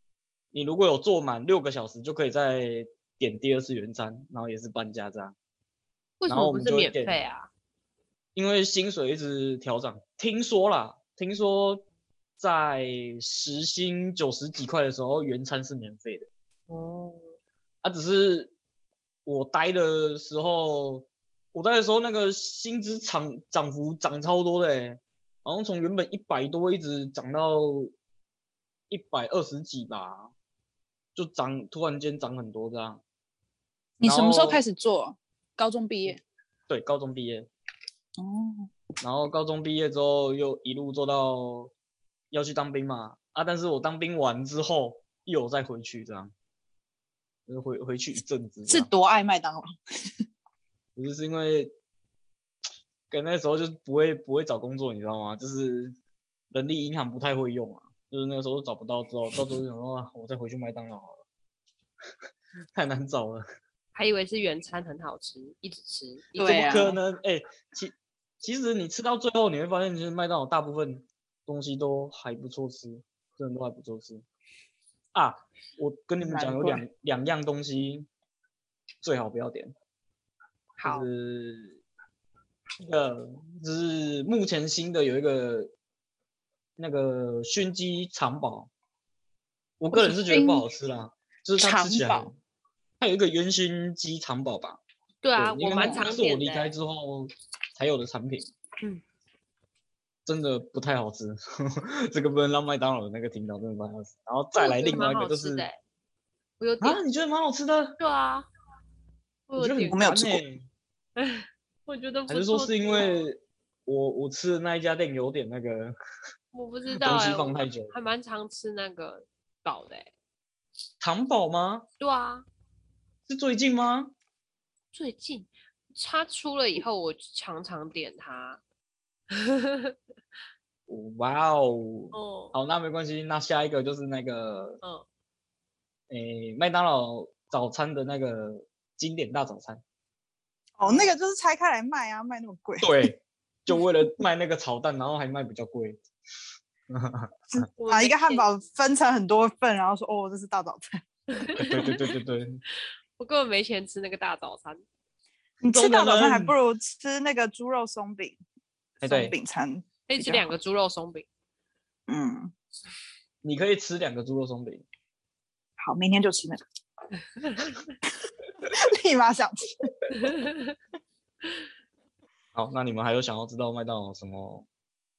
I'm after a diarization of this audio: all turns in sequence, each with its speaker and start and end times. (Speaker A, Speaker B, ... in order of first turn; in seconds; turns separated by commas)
Speaker A: 0.5-5.3, Speaker B: 6.2-7.5, Speaker A: 6.3-7.2, Speaker A: 8.3-11.9, Speaker A: 12.4-16.3, Speaker B: 16.7-17.2, Speaker A: 17.8-18.5, Speaker A: 19.2-27.9, Speaker A: 28.9-30.3, Speaker A: 31.2-33.0, Speaker C: 34.0-36.2, Speaker A: 34.0-34.6, Speaker A: 36.7-37.5, Speaker C: 38.2-38.7, Speaker A: 39.0-41.7, Speaker A: 42.3-46.3, Speaker A: 47.5-48.9, Speaker C: 48.7-49.7, Speaker A: 51.0-51.7, Speaker A: 53.1-56.0, Speaker A: 56.5-61.2, Speaker A: 62.8-63.4, Speaker B: 64.0-66.9, Speaker C: 66.4-67.0, Speaker A: 66.4-74.2, Speaker A: 75.1-78.1, Speaker C: 76.2-76.8, Speaker A: 79.0-79.7, Speaker B: 80.8-81.1, Speaker A: 80.8-81.8, Speaker A: 82.8-85.7, Speaker A: 86.8-88.7, Speaker A: 89.8-92.4, Speaker C: 89.9-90.7, Speaker C: 91.6-92.3, Speaker A: 93.0-94.8, Speaker B: 95.2-96.7, Speaker A: 95.4-98.5, Speaker A: 100.3-105.7, Speaker B: 104.5-105.8, Speaker B: 106.6-107.0, Speaker A: 106.8-108.0, Speaker B: 108.0-108.5, Speaker B: 109.5-110.1, Speaker A: 109.6-110.7, Speaker C: 109.9-110.4, Speaker B: 111.2-113.3, Speaker A: 112.3-116.0, Speaker B: 116.5-120.1, Speaker A: 117.0-117.9, Speaker A: 121.0-121.9, Speaker B: 122.0-122.5, Speaker A: 123.3-124.1, Speaker B: 124.9-128.6, Speaker B: 129.3-129.9, Speaker A: 130.9-134.8, Speaker B: 132.1-132.6, Speaker A: 136.1-139.8, Speaker C: 140.8-143.1, Speaker B: 140.8-141.1, Speaker A: 142.8-146.0, Speaker A: 146.9-147.3, Speaker C: 147.5-151.0, Speaker B: 147.8-148.5, Speaker B: 151.3-152.0, Speaker A: 151.6-152.6, Speaker B: 153.2-154.8, Speaker C: 155.6-158.4, Speaker A: 155.7-156.6, Speaker A: 159.0-159.3, Speaker C: 159.0-160.5, Speaker B: 160.1-161.3, Speaker C: 162.1-162.5, Speaker A: 163.4-164.8, Speaker C: 165.8-166.6, Speaker B: 167.4-167.9, Speaker C: 168.6-169.9, Speaker B: 170.1-170.7, Speaker A: 172.6-174.7